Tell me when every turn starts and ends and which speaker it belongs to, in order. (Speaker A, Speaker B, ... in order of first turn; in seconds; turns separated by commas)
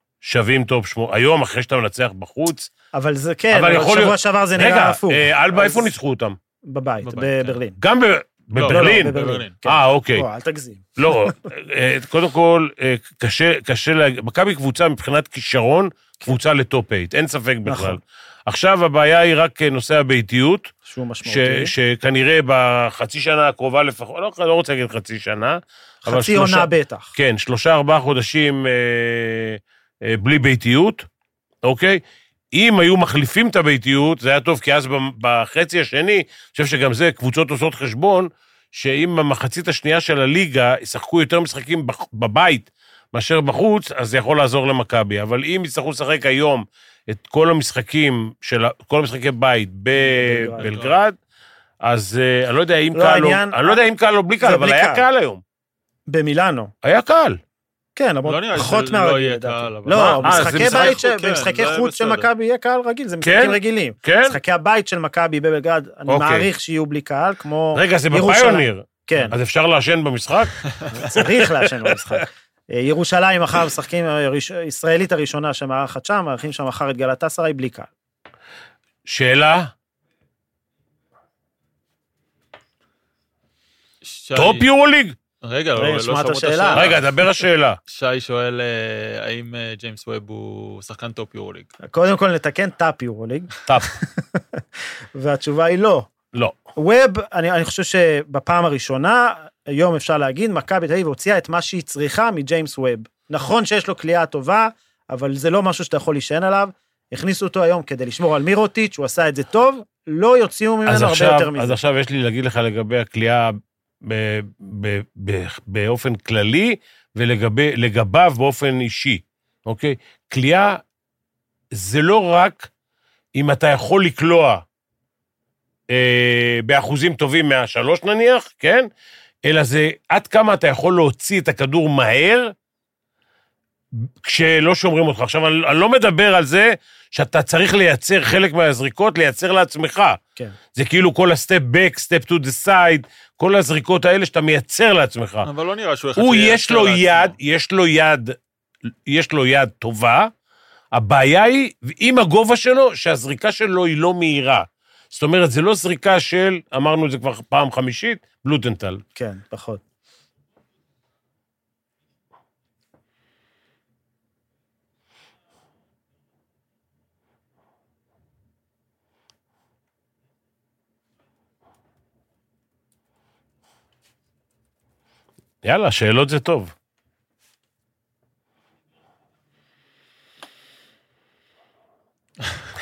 Speaker A: 0.2-2.7, Speaker B: 2.9-5.8, Speaker A: 3.5-6.4, Speaker B: 6.6-7.8, Speaker C: 7.0-7.6, Speaker A: 7.8-10.2, Speaker C: 8.5-9.5, Speaker B: 8.7-11.3, Speaker A: 11.0-20.7, Speaker B: 17.6-18.0, Speaker B: 20.8-21.7, Speaker A: 21.2-31.1, Speaker B: 26.0-27.1, Speaker A: 31.6-51.2, Speaker B: 50.0-50.7, Speaker C: 50.6-51.0, Speaker A: 51.8-55.4, Speaker B: 52.9-53.8, Speaker B: 54.4-55.0, Speaker B: 56.1-56.7, Speaker A: 56.8-57.4, Speaker B: 58.0-69.3, Speaker C: 58.2-62.3, Speaker A: 59.9-61.0, Speaker A: 63.2-64.4, Speaker A: 66.1-66.5, Speaker A: 67.7-72.0, Speaker B: 71.0-77.9, Speaker A: 79.0-79.7, Speaker C: 84.0-84.7, Speaker A: 84.3-85.2, Speaker C: 85.4-87.0, Speaker B: 85.8-86.9, Speaker A: 86.7-87.8, Speaker C: 87.8-91.7, Speaker B: 91.8-94.4, Speaker A: 93.7-93.9, Speaker B: 95.1-96.1, Speaker B: 96.8-111.8, Speaker A: 110.8-120.8, Speaker A: 121.7-122.7, Speaker A: 123.3-124.6, Speaker A: 125.9-128.9, Speaker A: 129.4-132.5, Speaker A: 133.9-140.2, Speaker A: 140.7-145.5, Speaker C: 145.4-147.4, Speaker A: 146.2-148.4, Speaker A: 149.1-150.3, Speaker A: 150.9-159.0, Speaker B: 159.1-159.8, Speaker A: 175.6-176.7